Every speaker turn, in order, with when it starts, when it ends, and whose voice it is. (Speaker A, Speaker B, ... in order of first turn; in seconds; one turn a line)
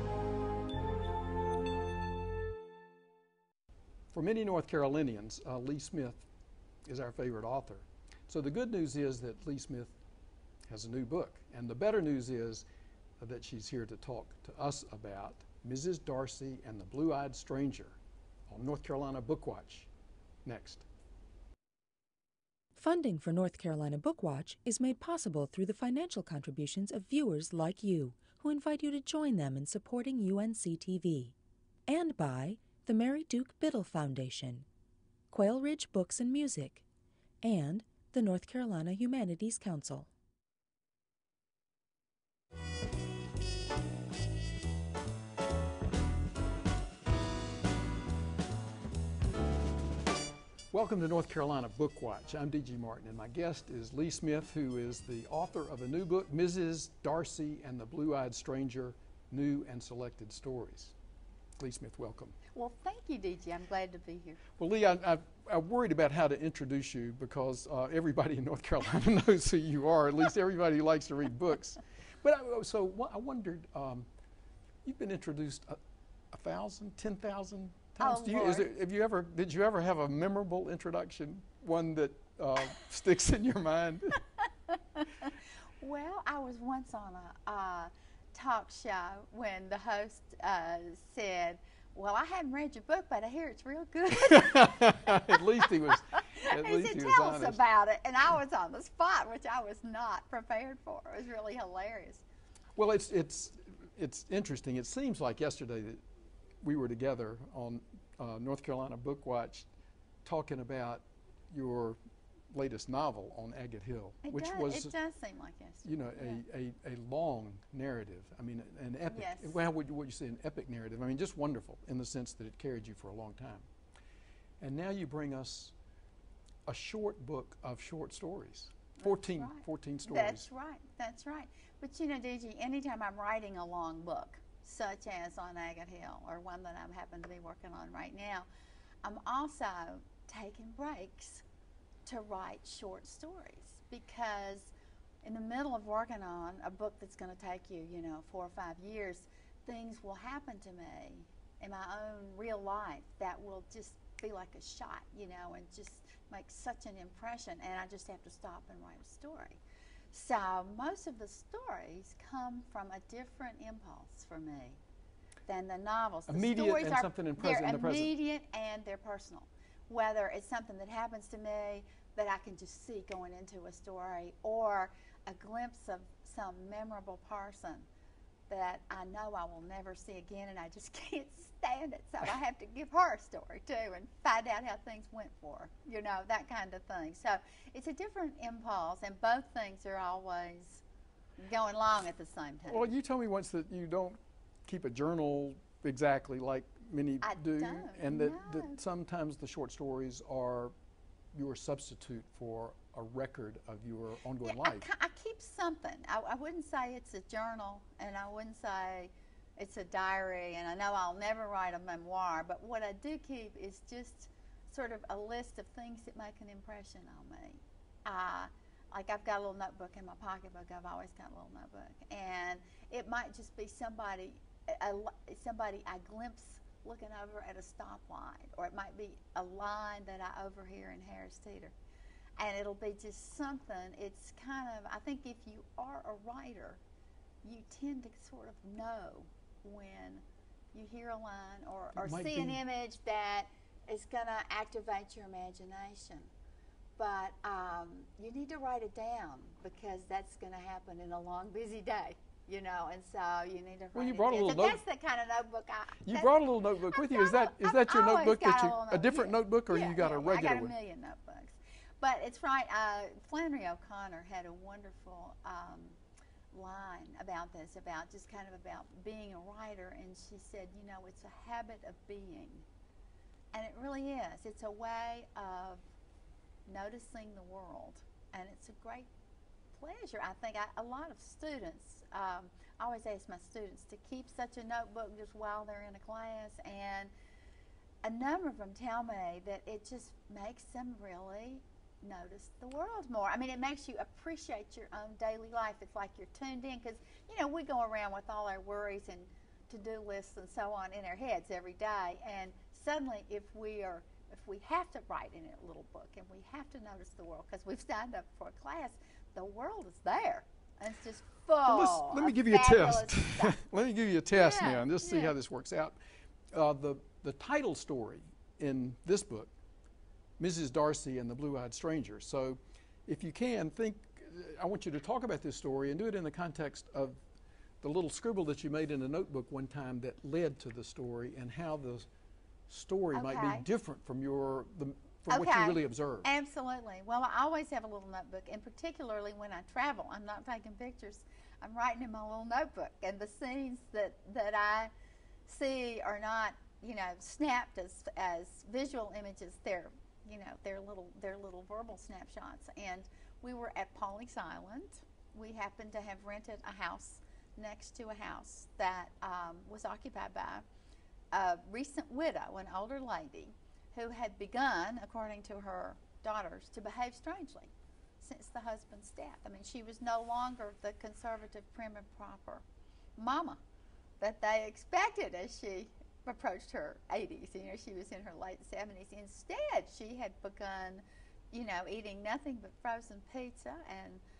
Speaker A: 4.1-6.3
Speaker A: 6.8-9.9
Speaker A: 10.7-12.6
Speaker A: 13.2-18.0
Speaker A: 18.5-19.9
Speaker A: 20.4-20.8
Speaker B: 22.8-31.3
Speaker B: 31.9-34.7
Speaker B: 35.3-36.8
Speaker B: 37.4-40.1
Speaker A: 50.7-61.0
Speaker A: 61.5-62.4
Speaker C: 62.5-64.4
Speaker A: 64.6-74.1
Speaker A: 74.8-75.8
Speaker A: 76.3-84.2
Speaker C: 78.0-78.7
Speaker C: 84.7-102.2
Speaker A: 94.2-97.6
Speaker A: 102.8-106.0
Speaker A: 106.6-109.7
Speaker A: 110.2-112.0
Speaker A: 112.5-115.0
Speaker C: 114.2-116.4
Speaker A: 115.8-123.7
Speaker C: 119.1-119.6
Speaker A: 124.6-125.8
Speaker A: 126.7-130.5
Speaker C: 129.0-138.5
Speaker C: 139.0-141.4
Speaker C: 142.1-159.6
Speaker C: 160.1-164.8
Speaker C: 165.4-177.9
Speaker A: 166.3-168.1
Speaker C: 178.5-190.8
Speaker C: 191.4-192.9
Speaker A: 192.7-200.7
Speaker C: 197.2-198.8
Speaker A: 201.3-204.9
Speaker C: 204.4-231.8
Speaker C: 232.4-236.8
Speaker C: 237.4-246.3
Speaker A: 241.9-242.6
Speaker C: 247.0-256.3
Speaker A: 253.9-254.8
Speaker A: 256.0-260.7
Speaker C: 256.9-266.0
Speaker C: 266.5-272.6
Speaker C: 273.5-275.9
Speaker C: 276.6-279.1
Speaker C: 279.7-287.1
Speaker C: 288.0-313.6
Speaker A: 311.6-316.0
Speaker C: 314.3-315.3
Speaker A: 316.5-319.5
Speaker A: 320.4-327.2
Speaker A: 327.8-332.1
Speaker A: 332.7-336.3
Speaker C: 333.1-333.6
Speaker C: 335.3-344.9
Speaker C: 345.4-360.6
Speaker C: 361.3-372.6
Speaker C: 373.2-373.6
Speaker C: 374.2-384.2